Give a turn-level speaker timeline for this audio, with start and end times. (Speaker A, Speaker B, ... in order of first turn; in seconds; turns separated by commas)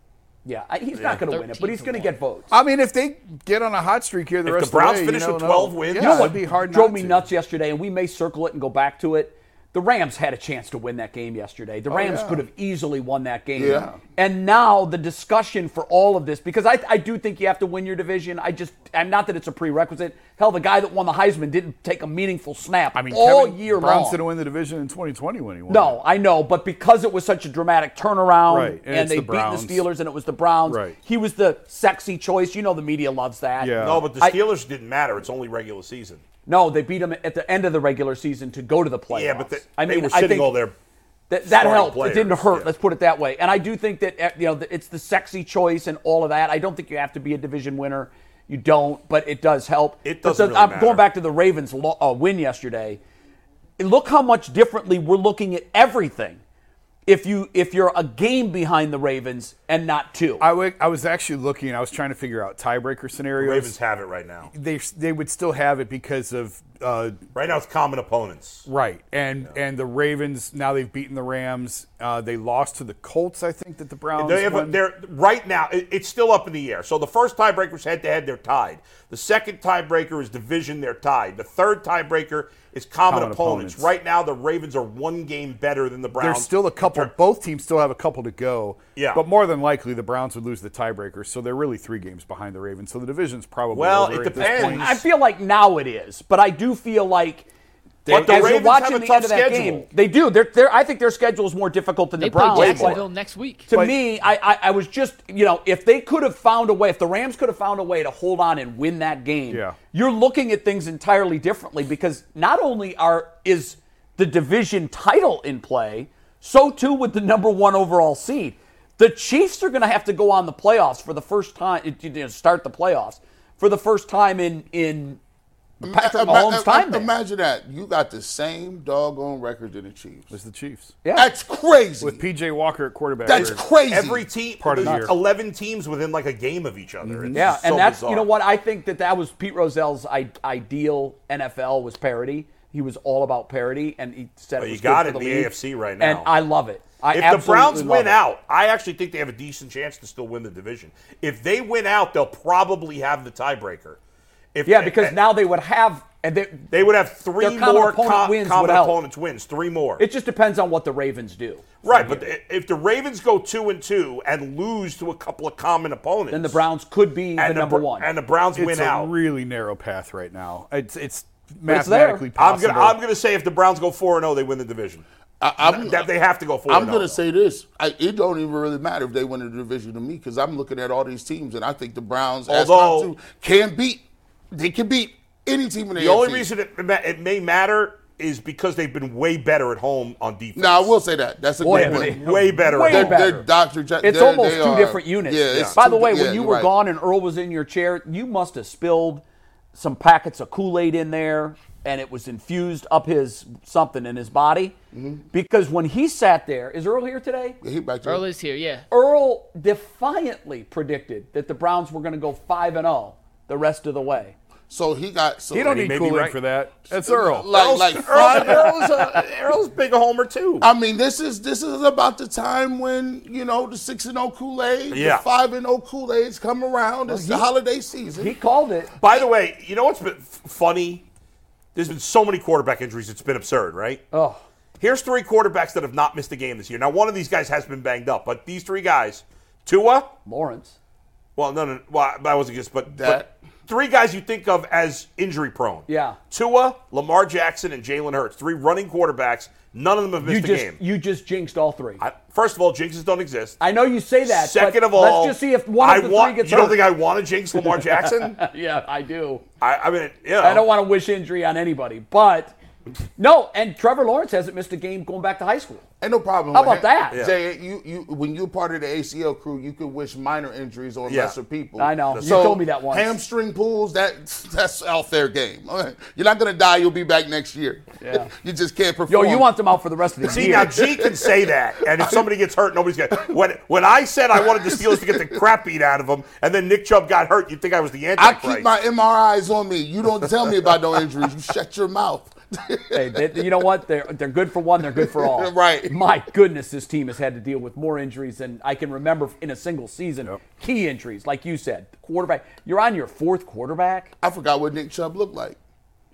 Speaker A: 0.4-2.5, Speaker B: 0.9-1.2, Speaker C: 1.1-2.1, Speaker D: 2.5-7.3, Speaker B: 4.4-6.4, Speaker A: 5.9-24.2, Speaker D: 11.9-12.4, Speaker E: 13.6-13.9, Speaker D: 13.6-14.0, Speaker D: 22.9-26.0, Speaker A: 25.7-34.4, Speaker D: 28.5-29.9, Speaker D: 30.7-31.0, Speaker D: 33.6-34.1, Speaker B: 33.8-36.2, Speaker A: 36.5-40.6, Speaker B: 39.1-40.8, Speaker A: 41.3-53.0, Speaker B: 41.5-42.7, Speaker B: 50.0-51.0, Speaker A: 53.8-56.4, Speaker A: 57.0-60.5, Speaker D: 60.4-63.8, Speaker B: 63.4-64.5, Speaker D: 64.5-67.2, Speaker B: 67.3-68.7, Speaker D: 68.7-74.8, Speaker B: 74.2-87.1, Speaker D: 83.0-83.9, Speaker D: 86.2-95.0, Speaker B: 89.0-89.2, Speaker B: 93.7-94.9, Speaker A: 94.4-97.5, Speaker A: 98.0-103.0, Speaker D: 98.1-98.6, Speaker B: 98.1-99.9, Speaker C: 102.2-103.7, Speaker B: 102.5-103.0, Speaker A: 103.7-125.2, Speaker D: 103.7-104.0, Speaker D: 109.5-109.8, Speaker E: 125.8-130.3, Speaker A: 125.8-127.1, Speaker D: 130.3-130.9, Speaker A: 131.0-131.3, Speaker E: 131.1-132.2, Speaker D: 132.0-133.6, Speaker E: 133.2-134.3, Speaker B: 133.3-138.3, Speaker D: 134.6-135.1, Speaker A: 134.8-135.1, Speaker D: 137.0-137.5, Speaker A: 137.3-148.2, Speaker B: 144.6-146.3, Speaker B: 147.1-154.0, Speaker B: 154.5-155.2, Speaker A: 154.6-156.7, Speaker B: 156.7-160.0, Speaker A: 157.4-159.0, Speaker A: 160.0-162.2, Speaker B: 161.8-166.6, Speaker A: 166.3-168.1, Speaker B: 167.4-169.1, Speaker D: 168.5-173.0, Speaker A: 171.7-172.2, Speaker B: 172.4-175.0, Speaker E: 175.4-176.1, Speaker B: 175.6-177.2, Speaker E: 176.7-186.5, Speaker B: 182.5-183.1, Speaker B: 186.0-190.9, Speaker E: 190.5-196.7, Speaker A: 191.6-193.5, Speaker B: 191.7-193.4, Speaker A: 194.0-199.2, Speaker A: 199.8-204.8, Speaker E: 204.9-205.2, Speaker A: 205.3-207.6, Speaker E: 207.6-208.2, Speaker C: 208.0-208.8, Speaker A: 208.9-214.3, Speaker E: 214.7-216.1, Speaker D: 215.5-217.5, Speaker B: 215.6-216.4, Speaker E: 217.0-219.1, Speaker B: 217.5-220.7, Speaker D: 218.1-219.0, Speaker E: 220.6-228.3, Speaker B: 224.9-225.2, Speaker A: 227.1-227.5, Speaker A: 228.1-228.9, Speaker B: 229.0-231.0, Speaker B: 231.8-234.0, Speaker A: 234.1-234.4, Speaker B: 234.8-240.1, Speaker A: 240.2-240.8, Speaker B: 241.4-250.8, Speaker E: 242.9-243.3, Speaker A: 245.9-246.2, Speaker A: 250.2-252.0, Speaker B: 252.0-253.6, Speaker A: 253.6-256.9, Speaker B: 254.2-258.4, Speaker A: 257.6-259.4, Speaker B: 259.6-260.6, Speaker A: 260.4-262.5, Speaker A: 263.2-265.9, Speaker E: 266.0-279.5, Speaker A: 266.5-267.2, Speaker B: 271.1-271.4, Speaker A: 271.8-273.1, Speaker B: 272.1-272.6, Speaker A: 278.0-278.3, Speaker A: 279.1-280.7, Speaker E: 280.2-282.2, Speaker B: 280.3-288.7, Speaker E: 284.4-285.4, Speaker E: 288.2-293.5, Speaker A: 292.9-304.1, Speaker E: 294.9-296.0, Speaker E: 304.2-305.6